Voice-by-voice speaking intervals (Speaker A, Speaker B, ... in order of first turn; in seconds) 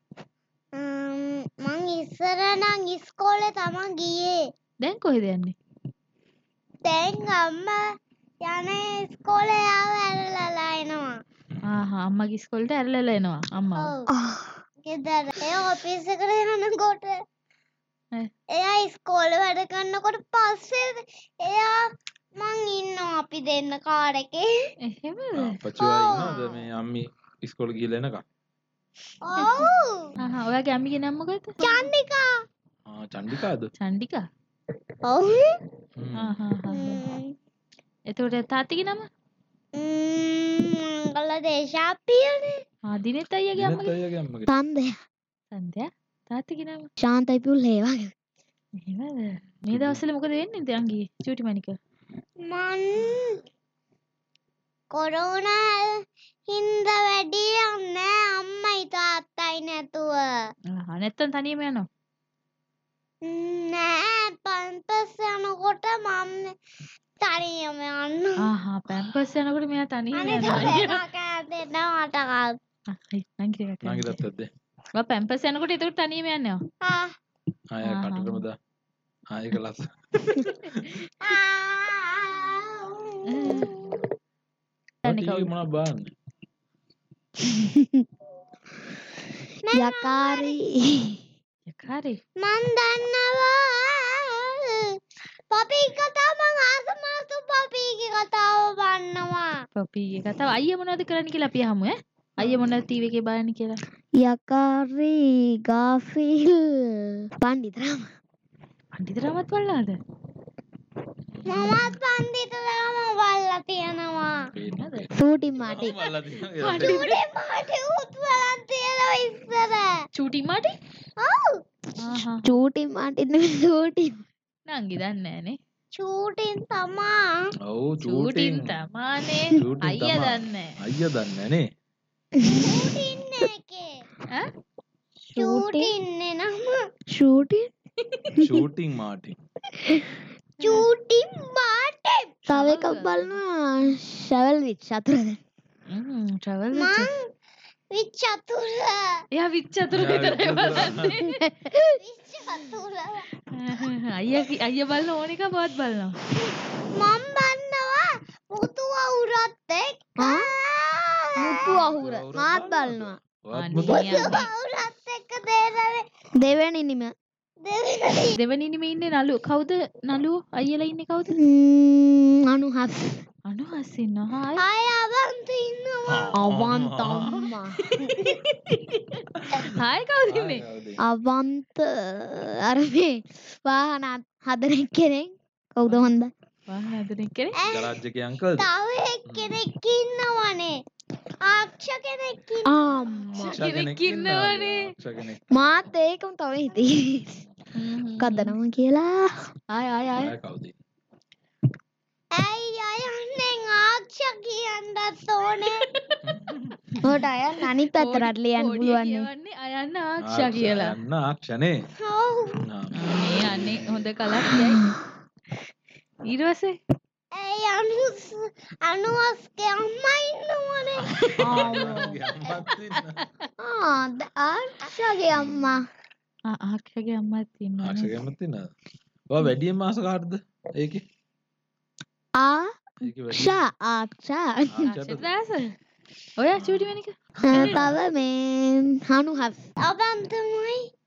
Speaker A: 0.7-4.4, 6.8-7.8, 8.4-11.1, 13.8-14.1, 14.8-17.2, 18.5-24.5, 25.8-26.7, 29.2-30.1, 31.6-32.3, 35.0-35.6, 36.7-37.3, 39.8-42.6, 52.5-53.4, 54.9-56.0, 56.5-60.3, 63.2-66.5, 67.2-68.5, 70.2-72.6, 76.8-77.2, 81.2-84.1, 89.7-90.6, 92.4-95.0, 95.5-99.5, 111.5-114.5, 116.8-119.9, 121.2-121.6, 126.0-127.3, 132.4-133.9, 135.3-136.8, 140.6-142.4, 146.7-147.3, 147.9-149.2, 151.9-153.3, 156.4-161.9, 163.8-166.1, 167.6-168.4, 174.6-176.4, 187.6-188.0, 188.6-190.8, 191.4-192.9, 202.3-205.9, 212.0-212.6, 217.3-221.7, 239.8-240.9
Speaker B: 4.8-5.5, 11.7-13.9, 24.8-25.6, 30.2-31.9, 33.8-34.2, 36.2-37.0, 38.1-39.1, 42.9-43.9, 45.5-46.9, 48.8-51.8, 60.7-61.9, 68.4-71.0, 72.9-74.2, 75.0-76.6, 77.8-78.4, 83.3-83.8, 85.0-85.5, 91.7-92.2, 99.8-103.8, 109.0-110.0, 111.5-111.9, 114.6-115.1, 116.6-117.2, 120.2-120.8, 122.0-122.5, 124.7-125.6, 128.0-130.8, 140.6-140.9, 142.5-143.4, 145.9-147.1, 149.3-151.5, 153.5-156.2, 163.5-164.5, 168.3-171.4, 173.5-174.6, 177.8-180.6, 186.7-187.6, 193.4-194.9, 197.8-198.6, 199.7-200.3, 205.7-207.0, 207.9-210.9, 213.0-214.9, 216.3-216.8, 221.4-222.1, 226.5-228.1, 234.9-235.7, 236.4-237.8
Speaker C: 14.1-14.6, 44.5-45.0, 47.0-48.1, 87.5-88.1, 89.7-91.2, 104.2-108.1, 115.2-116.0, 122.4-124.2, 132.4-132.9, 135.3-135.9, 137.1-137.7, 138.3-138.7, 139.8-140.2, 142.5-145.4, 151.7-152.0, 160.2-160.5, 161.4-163.2, 166.4-167.1, 171.3-173.2, 176.3-178.0, 181.0-186.3, 192.7-193.6, 195.5-197.4, 198.2-199.3, 207.0-209.3, 221.5-222.1, 223.6-225.8, 232.4-234.9, 237.4-239.7
Speaker D: 25.3-28.2, 32.9-33.7, 36.0-36.4, 43.5-44.5, 49.7-50.0, 70.5-70.8, 73.8-74.5, 77.7-78.6, 79.3-81.1, 85.0-86.1, 111.3-111.8, 114.5-117.1, 127.7-128.7, 129.5-131.7, 138.4-139.4, 149.9-151.3, 162.0-164.3, 176.1-177.5, 179.4-181.0, 187.7-188.7, 189.3-189.6, 193.4-195.7, 200.2-200.8, 206.2-206.6, 210.2-211.8, 212.6-214.1, 221.0-223.2, 225.3-225.8, 227.8-228.7, 229.3-231.0, 233.0-233.6, 234.7-235.3, 236.6-237.9